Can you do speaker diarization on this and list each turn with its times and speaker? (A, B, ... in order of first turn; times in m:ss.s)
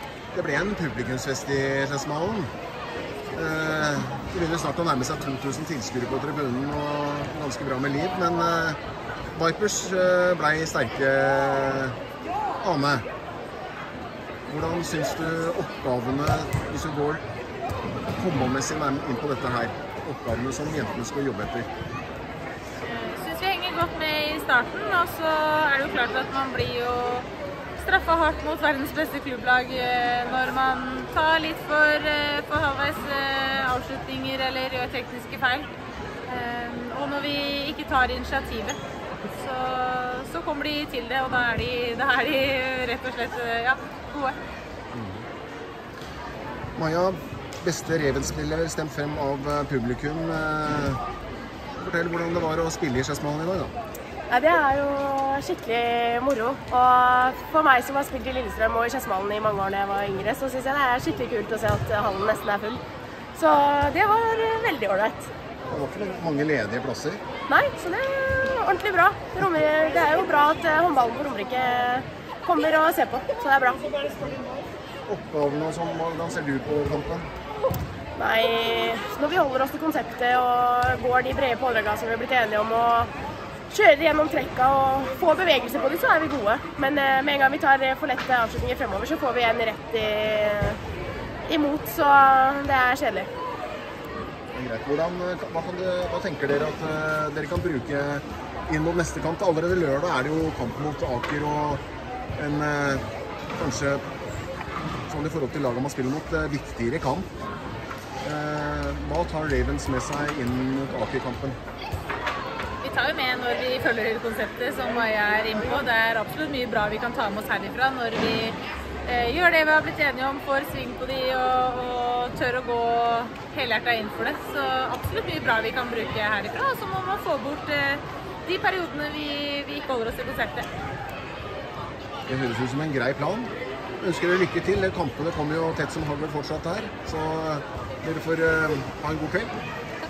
0:00.3-0:02.5 A
0:03.3-0:08.8 A
0:09.4-0:12.0 A
0:12.6-0:13.1 A
0:14.5-0:17.2 A
0:18.2-0:21.7 A
0:22.8-0:27.3 B
0:27.8-0:35.7 B
0:36.3-0:38.8 B
0:39.3-0:44.4 B
0:44.9-0:45.2 A
0:46.8-0:51.0 A
0:51.8-0:53.7 A
0:54.3-1:02.8 C
1:03.4-1:05.3 C
1:05.7-1:07.2 A
1:07.5-1:14.1 C
1:15.1-1:17.3 A
1:18.2-1:23.1 C
1:23.7-1:30.8 C
1:31.5-1:33.3 C
1:34.5-1:41.8 A
1:42.4-1:44.0 A
1:45.1-1:47.3 A
1:48.2-1:51.6 A
1:52.8-2:10.7 B
2:12.3-2:19.5 A